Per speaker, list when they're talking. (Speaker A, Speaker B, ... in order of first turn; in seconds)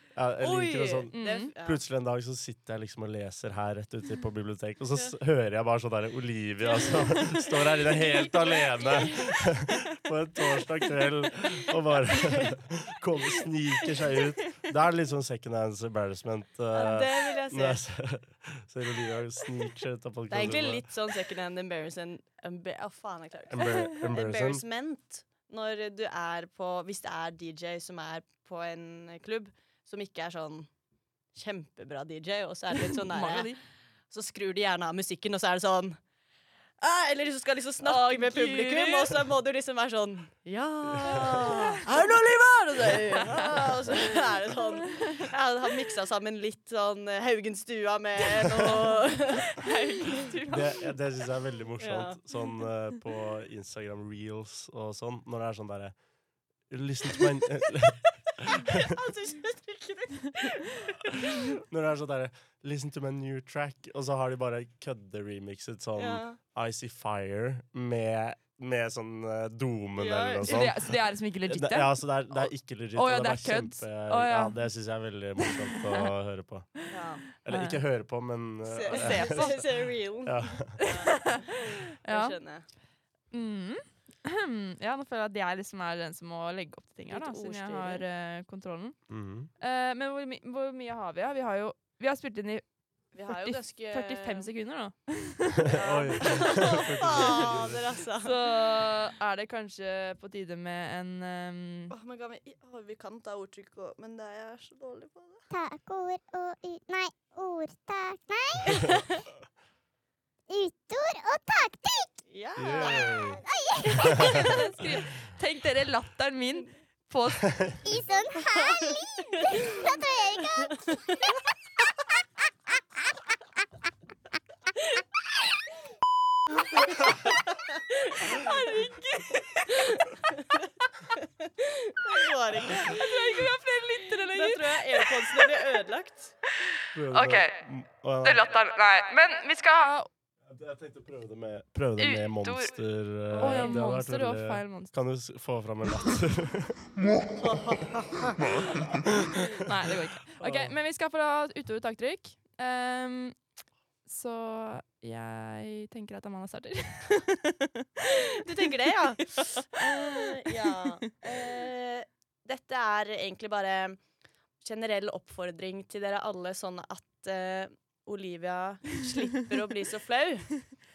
Speaker A: 0.1-20.9, 23.5-24.6, 50.5-56.0, 56.7-58.9, 61.5-79.6, 80.2-80.8, 89.1-89.5, 95.7-97.8, 112.6-113.4, 117.5-117.8, 136.9-138.4, 140.4-146.9, 150.4-150.7
Speaker B: 0.4-1.8, 6.7-9.3, 12.2-12.5, 16.7-17.8, 20.3-30.7, 31.3-33.5, 34.1-36.0, 36.8-49.6, 51.8-52.2, 58.6-61.4, 66.0-66.4, 70.0-70.7, 76.9-77.2, 78.7-82.7, 87.1-88.0, 93.1-94.5, 95.7-98.4, 101.9-105.4, 108.7-109.0, 112.3-113.1, 118.0-119.9, 120.7-121.2, 126.8-128.5, 129.6-133.5, 134.3-136.3, 143.4-143.7, 147.4-147.9, 158.1-164.0, 164.6-170.7
Speaker C: 1.1-1.5, 33.1-33.6, 37.8-39.2, 41.0-41.8, 43.3-44.0, 49.5-50.9, 70.4-74.5, 75.4-76.1, 77.5-77.8, 78.9-79.8, 80.8-81.5, 82.0-82.3, 83.3-89.0, 89.6-92.6, 93.3-95.7, 97.2-97.5, 98.2-101.9, 113.9-117.5, 128.2-130.0, 132.8-135.4, 137.1-137.5, 138.2-140.1, 142.0-142.8, 143.3-144.9, 149.6-153.3, 154.1-158.4, 159.2-160.7
Speaker D: 105.5-109.2, 110.5-112.1, 112.7-114.5, 117.8-121.1